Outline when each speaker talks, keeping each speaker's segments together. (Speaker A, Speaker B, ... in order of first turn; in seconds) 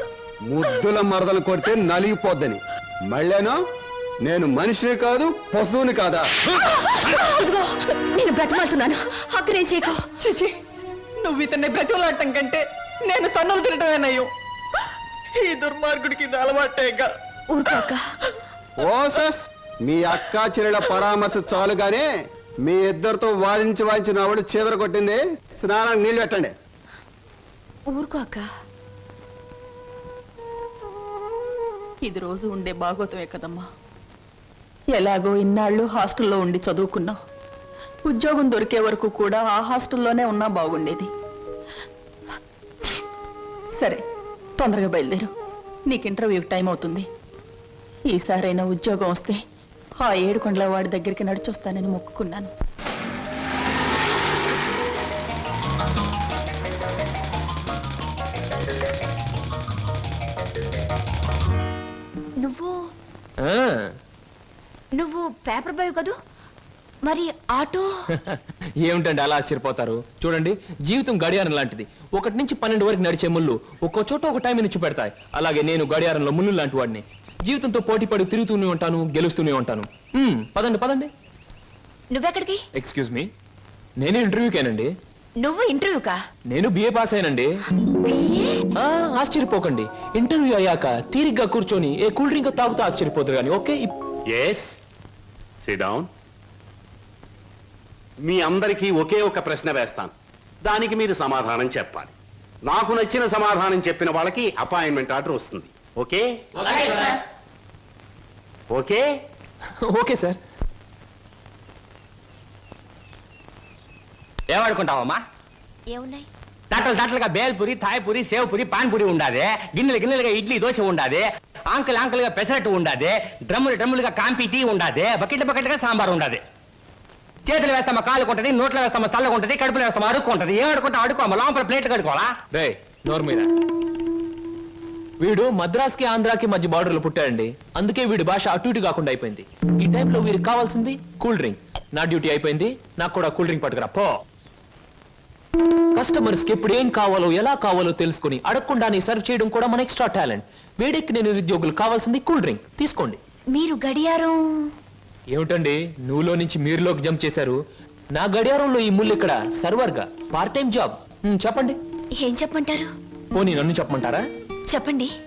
Speaker A: 0.5-2.6, 3.1-3.6, 4.2-6.2, 18.8-22.1, 22.6-26.5
Speaker B: 6.6-10.4, 17.5-18.1, 27.9-28.4, 62.4-62.7, 65.0-66.1, 67.0-67.9, 82.1-82.6, 85.4-86.2, 88.0-88.6, 106.7-107.1, 115.9-116.3, 153.5-154.7, 162.2-162.9, 164.7-165.1
Speaker C: 32.0-33.6, 34.9-37.2, 38.0-41.1, 44.6-45.3, 45.9-47.0, 48.1-49.4, 50.0-52.5
Speaker D: 63.4-63.9, 68.3-81.1, 82.7-83.3, 84.0-84.9, 86.5-87.5, 88.8-93.9, 109.8-110.4, 132.5-133.5, 135.2-144.2, 145.9-153.2, 155.3-157.6, 158.1-161.8, 163.3-164.2
Speaker E: 94.3-94.8, 95.6-96.1, 98.2-100.1, 100.6-102.1, 102.6-106.3, 108.7-109.0
Speaker F: 114.5-115.2, 116.7-126.4, 127.5-132.3